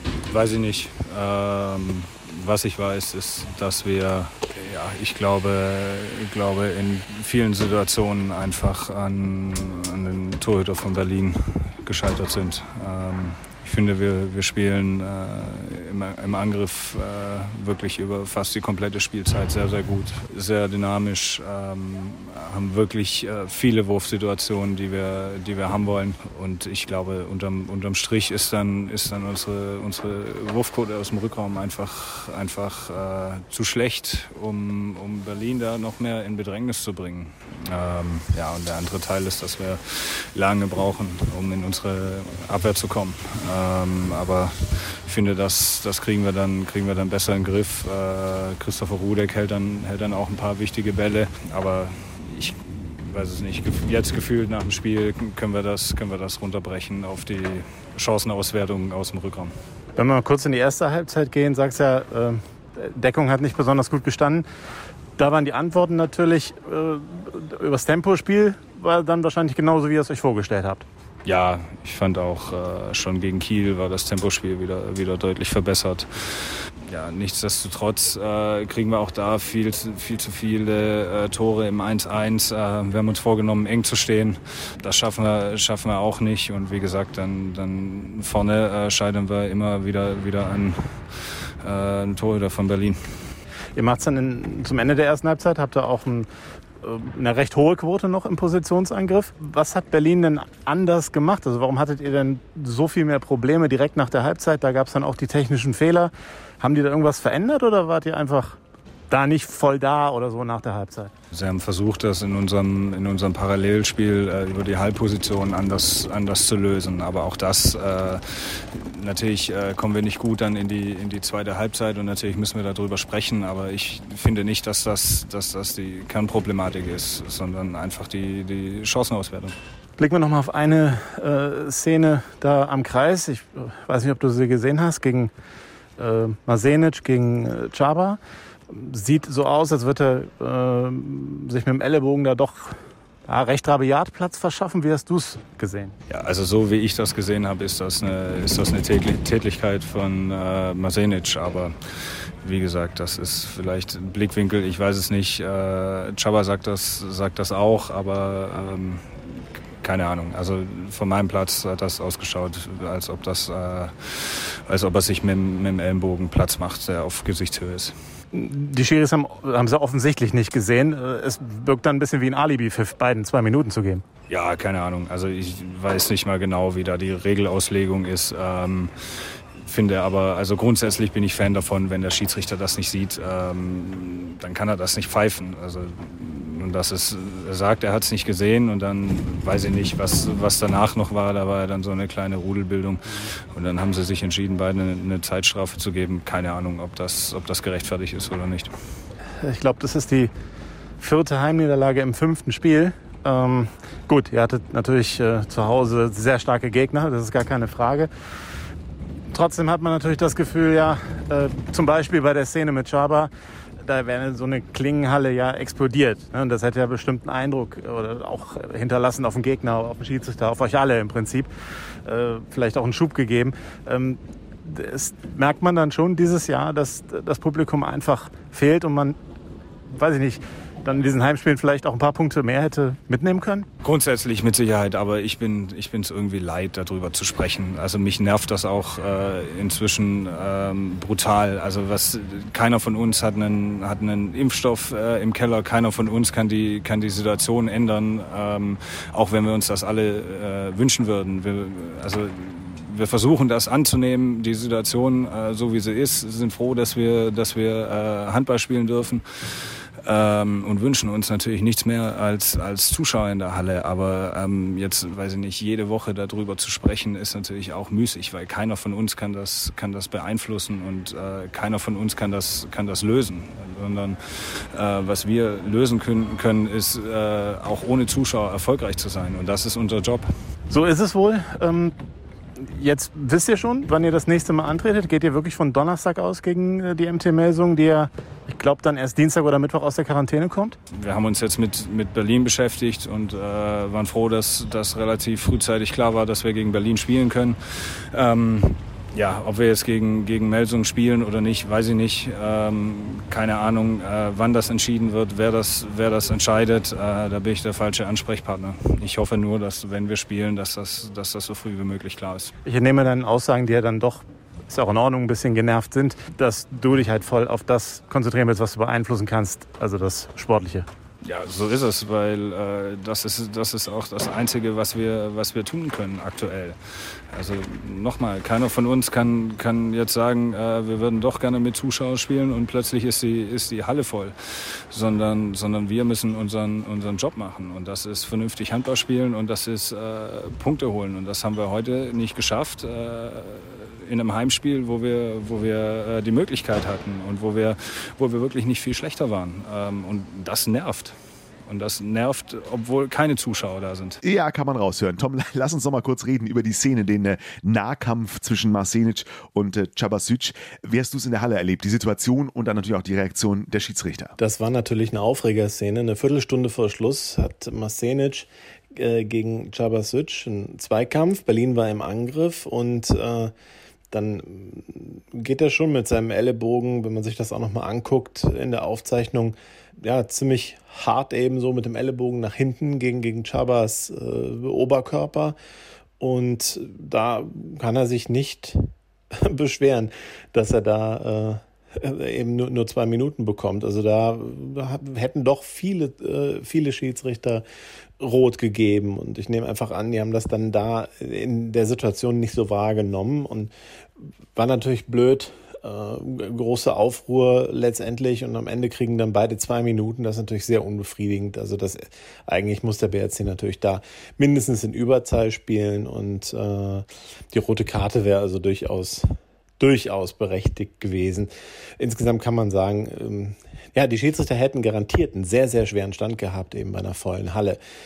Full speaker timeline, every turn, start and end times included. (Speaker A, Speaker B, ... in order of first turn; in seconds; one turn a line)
Speaker A: 0.1-59.5
Speaker B: 60.0-64.5
Speaker B: 65.2-70.9
Speaker A: 71.2-93.0
Speaker B: 93.8-96.3
Speaker B: 96.8-108.6
Speaker B: 109.1-111.1
Speaker A: 111.3-129.6
Speaker B: 130.0-135.3
Speaker B: 136.0-145.9
Speaker A: 146.1-151.8
Speaker A: 152.4-159.1
Speaker A: 159.8-167.9
Speaker B: 168.3-174.0
Speaker A: 174.3-178.9
Speaker A: 179.6-198.7
Speaker B: 199.4-200.3
Speaker B: 201.0-208.1
Speaker B: 209.3-213.3
Speaker B: 213.8-221.5
Speaker B: 222.1-229.2
Speaker B: 229.9-233.7
Speaker A: 233.8-280.3
Speaker B: 280.7-281.9
Speaker B: 282.6-290.8
Speaker A: 290.9-312.5
Speaker B: 312.6-320.9
Speaker A: 321.2-334.4
Speaker A: 334.9-351.1
Speaker A: 351.7-354.2
Speaker C: 354.2-364.3
Speaker D: 364.4-373.5
Speaker D: 374.1-385.6
Speaker D: 386.2-397.6
Speaker D: 398.2-403.7
Speaker D: 404.6-427.8